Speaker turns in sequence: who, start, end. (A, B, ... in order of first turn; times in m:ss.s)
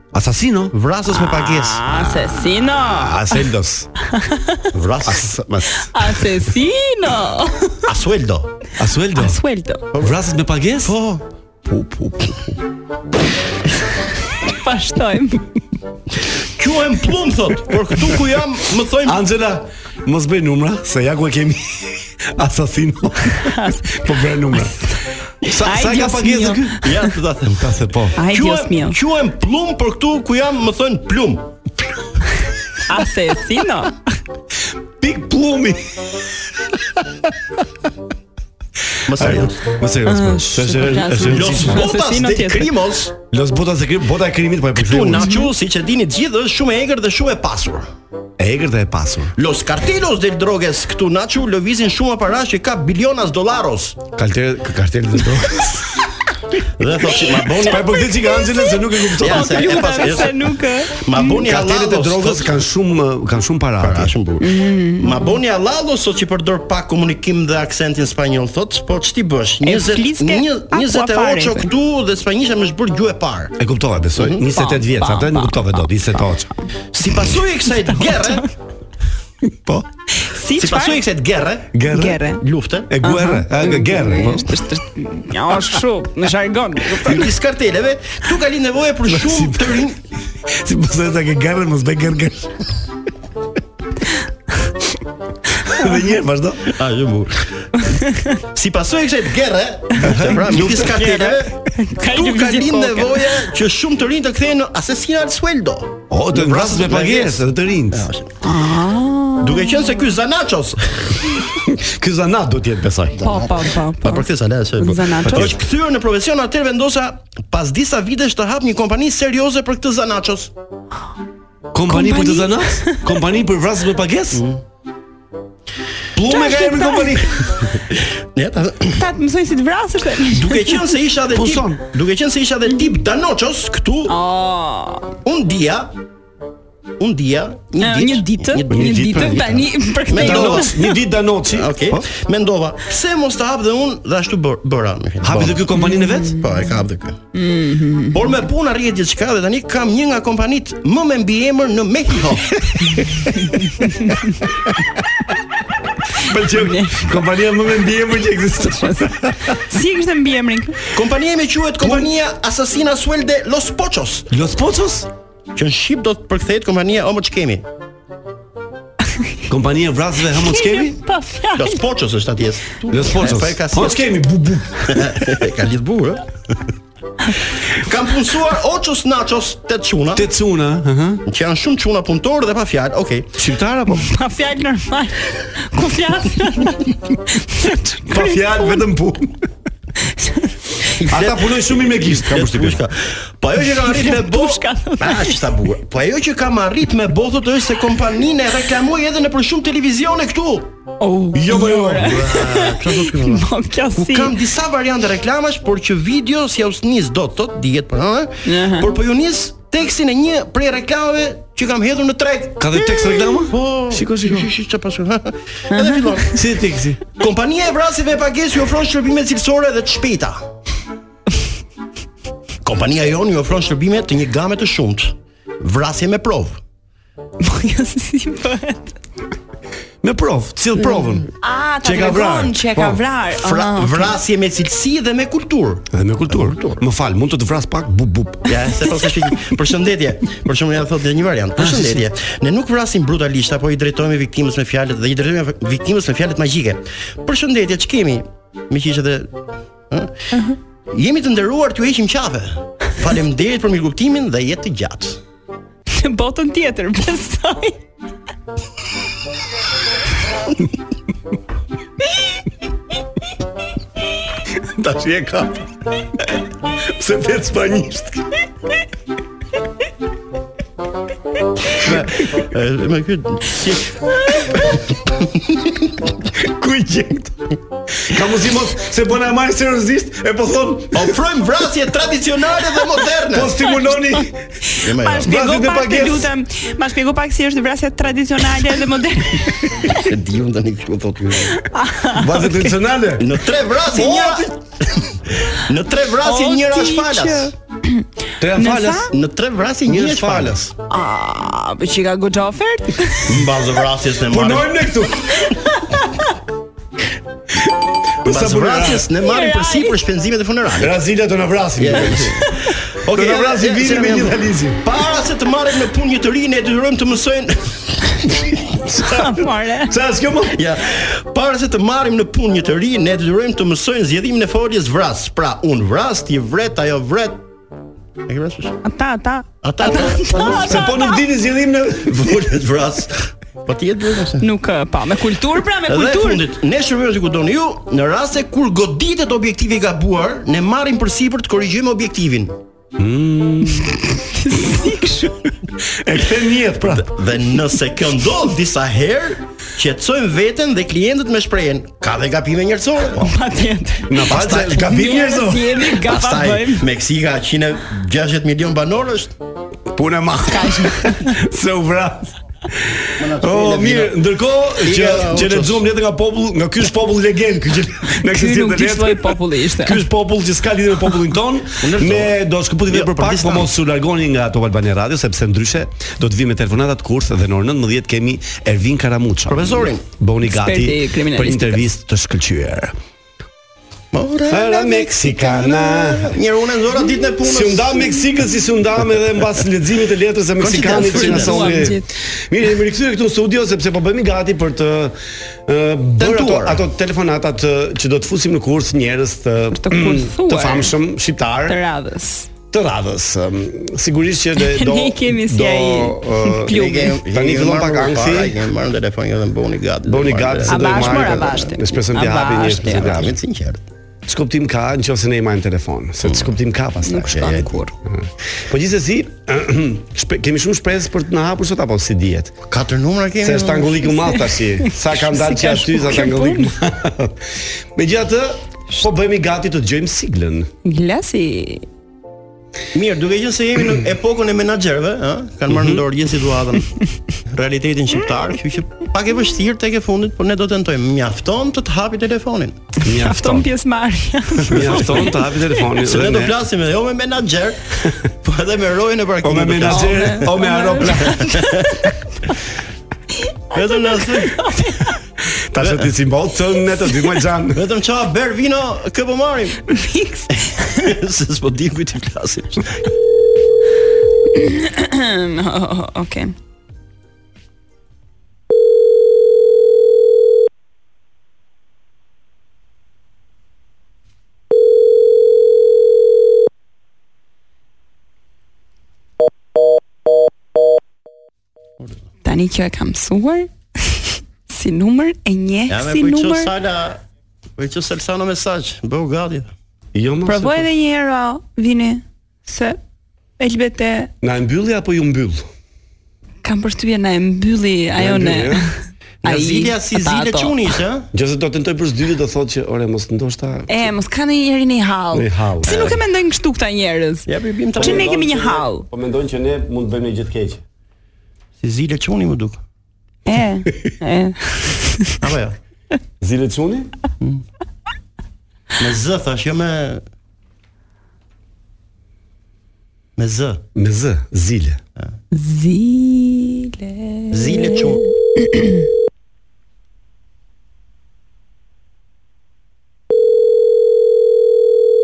0:00.1-0:00.7 A
0:00.7-0:01.8 B
0:01.1-0:03.5 C
0:01.9-0:03.9 A
0:04.0-0:04.7 C
0:04.7-0:05.3 B
0:05.0-0:06.4 A
0:05.8-0:07.8 C
0:07.8-0:08.5 B
0:08.8-0:09.4 A
0:09.1-0:09.8 C
0:10.0-0:11.0 A
0:10.8-0:11.2 B
0:11.6-0:12.6 A
0:14.4-0:15.4 C
0:16.4-0:19.2 B
0:19.0-0:24.8 A
0:23.4-0:24.0 C
0:24.5-0:27.0 C
0:25.4-0:26.8 A
0:26.8-0:31.5 B
0:27.6-0:28.2 A
0:28.2-0:29.0 C
0:32.9-0:34.0 C
0:35.0-0:36.3 A
0:39.0-0:39.6 B
0:39.1-0:41.8 A
0:40.0-0:42.7 C
0:41.3-0:43.1 B
0:43.3-0:45.3 A
0:44.8-0:47.9 B
0:45.2-0:45.5 C
0:48.4-0:49.3 A
0:49.4-0:54.0 B
0:54.1-0:56.1 A
0:56.8-0:58.0 B
0:57.6-1:00.3 A
0:57.7-1:01.4 C
0:59.2-1:00.4 B
1:00.9-1:02.6 B
1:01.3-1:04.1 A
1:03.8-1:13.5 B
1:04.4-1:05.4 C
1:09.6-1:11.7 C
1:13.6-1:16.5 A
1:14.2-1:14.4 B
1:14.5-1:16.2 C
1:16.9-1:18.4 B
1:17.8-1:18.5 C
1:19.4-1:19.9 A
1:20.2-1:21.0 C
1:20.6-1:21.7 B
1:21.7-1:22.2 A
1:21.9-1:22.4 C
1:22.4-1:22.9 B
1:22.9-1:24.5 A
1:23.0-1:27.3 C
1:27.0-1:30.0 B
1:29.1-1:29.9 A
1:30.4-1:32.6 A
1:35.6-1:36.7 A
1:36.6-1:37.8 B
1:37.9-1:38.4 C
1:38.5-1:48.3 B
1:40.0-1:41.3 A
1:41.0-1:43.5 C
1:46.1-1:48.1 A
1:48.4-1:49.9 C
1:49.4-1:51.4 B
1:51.6-1:53.3 A
1:53.2-1:55.6 C
1:54.0-2:00.5 B
1:55.2-1:55.6 A
2:01.7-2:04.4 A
2:01.9-2:03.0 C
2:04.3-2:04.6 B
2:06.1-2:07.6 A
2:06.3-2:07.5 C
2:07.9-2:09.0 B
2:08.9-2:10.9 C
2:10.3-2:14.1 B
2:11.3-2:11.8 A
2:14.1-2:15.1 C
2:15.2-2:15.9 B
2:17.0-2:20.7 B
2:17.8-2:21.0 C
2:18.7-2:22.0 A
2:21.5-2:25.7 B
2:25.2-2:26.4 A
2:25.8-2:26.6 C
2:26.3-2:27.2 B
2:27.3-2:28.3 C
2:28.1-2:33.1 B
2:33.7-2:34.4 C
2:36.2-2:39.5 A
2:36.5-2:37.2 C
2:38.6-2:40.8 C
2:40.9-2:44.3 B
2:44.3-2:45.1 A
2:45.5-2:47.6 B
2:49.5-2:51.0 A
2:50.3-2:51.8 C
2:51.6-2:54.1 B
2:52.9-2:55.2 A
2:54.9-2:56.6 B
2:57.6-3:00.3 B
3:00.1-3:01.2 A
3:01.2-3:03.3 B
3:03.4-3:04.0 A
3:03.9-3:08.8 C
3:08.1-3:09.4 A
3:10.0-3:10.5 C
3:11.0-3:20.7 B
3:11.1-3:12.8 A
3:13.8-3:15.5 C
3:21.0-3:24.4 C
3:21.3-3:22.3 A
3:22.0-3:32.9 B
3:28.4-3:28.9 C
3:32.6-3:34.5 A
3:33.0-3:33.4 C
3:33.5-3:36.4 B
3:35.7-3:36.2 C
3:36.3-3:37.0 A
3:37.2-3:40.4 B
3:42.6-3:46.6 B
3:47.4-3:49.0 C
3:50.0-3:51.3 A
3:51.4-3:54.1 C
3:51.8-3:53.0 A
3:53.4-3:56.8 B
3:55.9-3:58.7 A
3:58.5-4:09.3 B
4:01.6-4:02.0 A
4:09.9-4:10.3 B
4:10.9-4:15.2 B
4:15.9-4:17.8 C
4:24.6-4:25.7 A
4:26.7-4:28.3 A
4:31.6-4:36.1 B
4:36.3-4:41.2 A
4:40.9-4:43.6 B
4:43.3-4:44.5 A
4:43.9-4:50.0 C
4:44.8-4:45.4 B
4:45.2-4:46.3 A
4:49.8-4:51.6 B
4:51.6-4:52.8 C
4:52.1-4:54.6 A
4:53.2-4:57.5 B
4:56.2-4:59.1 C
4:58.4-4:59.1 A
4:59.1-5:00.6 B
4:59.9-5:00.7 A
5:00.9-5:03.3 C
5:03.2-5:04.8 B
5:04.2-5:05.5 A
5:05.5-5:06.1 C
5:07.5-5:09.1 A
5:08.2-5:10.9 B
5:09.2-5:10.0 C
5:10.8-5:12.5 A
5:11.8-5:18.5 B
5:13.1-5:14.8 A
5:18.8-5:20.6 A
5:19.0-5:19.9 C
5:20.5-5:27.4 B
5:28.2-5:28.8 B
5:28.8-5:31.2 C
5:29.6-5:30.8 B
5:30.4-5:32.5 A
5:32.0-5:34.4 B
5:34.4-5:36.4 C
5:35.9-5:42.6 B
5:43.0-5:44.2 A
5:43.7-5:45.5 C
5:45.8-5:47.2 A
5:46.9-5:53.3 B
5:53.2-5:56.9 C
5:54.1-5:55.9 A
5:54.3-5:54.9 B
5:56.0-5:59.3 B
5:59.9-6:22.9 A
6:00.5-6:01.4 C
6:03.2-6:04.2 B
6:04.8-6:05.8 B
6:08.2-6:10.0 C
6:11.8-6:13.7 B
6:19.5-6:20.0 B
6:20.4-6:21.8 C
6:24.1-6:28.1 B
6:24.5-6:26.4 A
6:27.4-6:41.8 A
6:30.6-6:31.8 B
6:31.0-6:32.1 C
6:36.2-6:36.8 B
6:39.7-6:40.9 C
6:41.6-6:42.5 C
6:42.7-6:48.6 A
6:44.6-6:47.2 C
6:46.7-6:51.5 B
6:50.1-6:53.3 A
6:50.7-6:53.2 C
6:53.0-6:53.8 B
6:54.2-7:02.6 A
6:56.2-6:56.6 B
6:57.0-6:57.9 C
6:57.3-6:57.7 B
7:02.7-7:04.0 B
7:03.4-7:10.7 A
7:04.1-7:06.7 C
7:10.8-7:11.8 C
7:12.9-7:16.9 B
7:15.7-7:16.0 A
7:17.4-7:22.8 B
7:23.0-7:23.7 A
7:23.0-7:25.8 C
7:24.6-7:26.6 A
7:26.0-7:30.5 B
7:29.4-7:31.4 A
7:29.9-7:32.5 C
7:31.4-7:31.9 B
7:33.5-7:35.2 C
7:33.7-7:34.6 B
7:35.7-7:37.9 A
7:35.8-7:36.1 B
7:37.7-7:39.8 B
7:39.9-7:41.1 C
7:40.7-7:43.1 B
7:44.5-7:46.5 C
8:02.4-8:06.7 C
8:05.9-8:07.2 B
8:07.8-8:09.7 B
8:10.1-8:10.9 A
8:10.4-8:13.0 C
8:13.6-8:14.3 C
8:14.4-8:15.6 A
8:16.6-8:21.0 C
8:18.2-8:18.9 A
8:19.4-8:21.3 B
8:21.3-8:24.1 A
8:23.9-8:29.1 C
8:25.3-8:26.1 A
8:25.9-8:26.2 B
8:27.5-8:28.3 B
8:28.0-8:30.8 A
8:31.8-8:32.8 B
8:33.4-8:35.4 C
8:35.4-8:35.8 B
8:36.4-8:37.1 A
8:39.0-8:40.2 B
8:43.4-8:43.8 B
8:43.9-8:45.0 A
8:45.5-8:49.0 C
8:47.5-8:48.2 B